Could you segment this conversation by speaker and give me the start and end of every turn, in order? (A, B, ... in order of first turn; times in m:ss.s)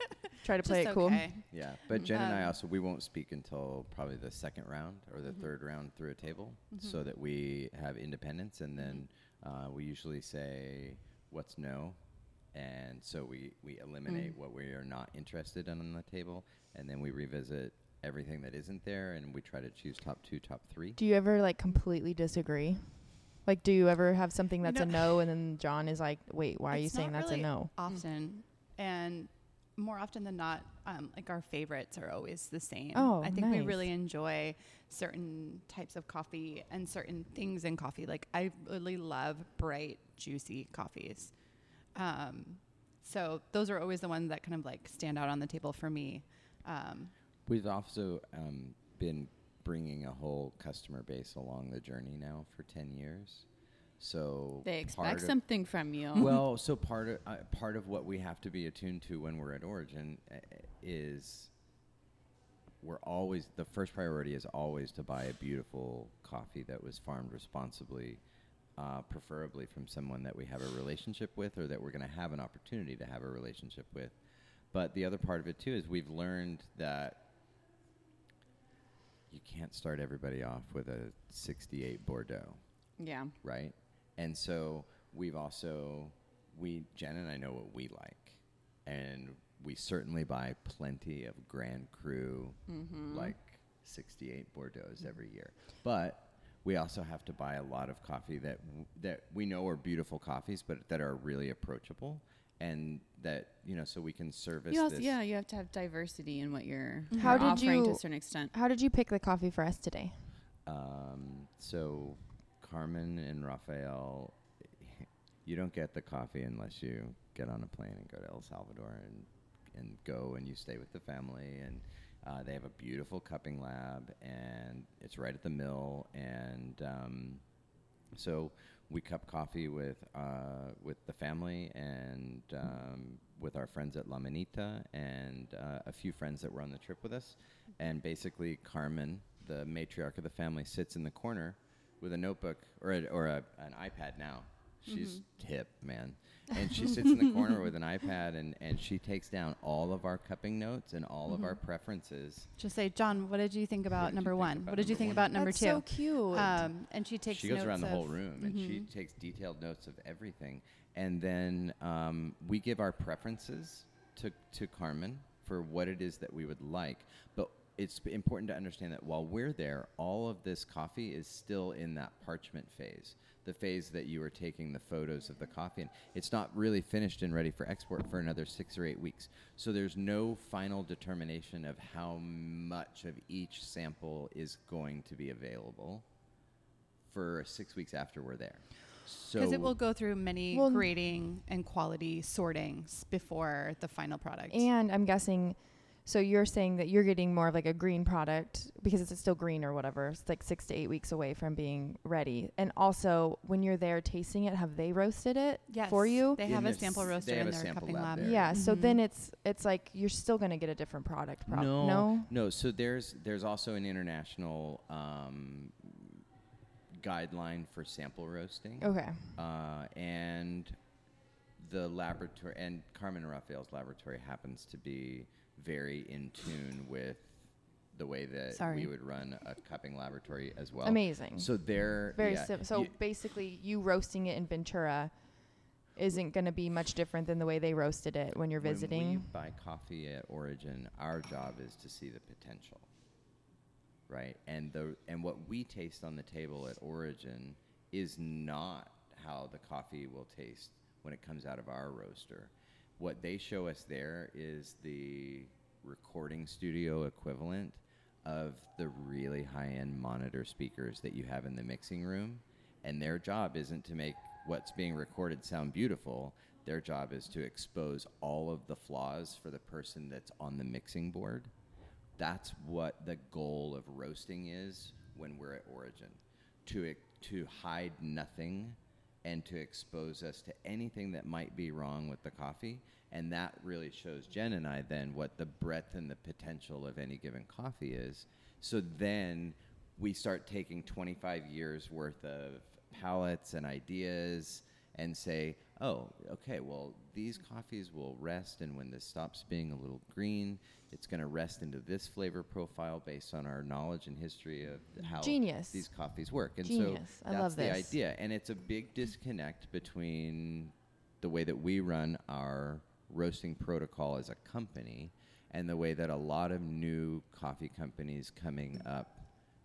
0:00.4-0:01.4 A
0:00.6-0:02.5 B
0:01.5-0:21.0 C
0:21.0-0:27.7 A
0:24.6-0:25.1 B
0:26.7-0:41.4 B
0:32.9-0:33.9 A
0:41.9-0:47.1 B
0:47.5-0:53.5 C
0:54.0-0:55.5 C
0:54.6-0:56.3 D
0:56.1-1:01.5 C
1:02.8-1:08.2 C
1:08.8-1:14.2 C
1:14.7-1:17.2 C
1:19.3-1:22.6 C
1:23.0-1:23.3 D
1:23.4-1:45.1 C
1:32.7-1:33.3 D
1:44.7-1:48.5 D
1:47.1-1:47.6 B
1:47.2-1:50.3 A
1:50.7-2:07.4 C
2:08.1-2:32.5 C
2:24.9-2:25.2 B
2:32.6-2:38.8 B
2:34.0-2:35.3 C
2:35.4-2:36.7 A
2:37.3-3:06.1 C
3:07.1-3:09.8 C
3:09.4-3:14.7 B
3:10.5-3:10.9 A
3:14.5-3:26.4 A
3:25.7-3:29.0 B
3:26.4-3:28.6 C
3:28.2-3:32.3 A
3:31.5-3:36.2 C
3:36.9-3:40.8 C
3:38.8-3:39.4 A
3:41.6-3:52.9 C
3:48.5-3:48.9 B
3:50.8-3:59.3 A
3:58.6-4:02.9 C
4:04.1-4:31.5 C
4:32.2-5:19.3 C
5:05.2-5:05.9 A
5:06.6-5:08.0 A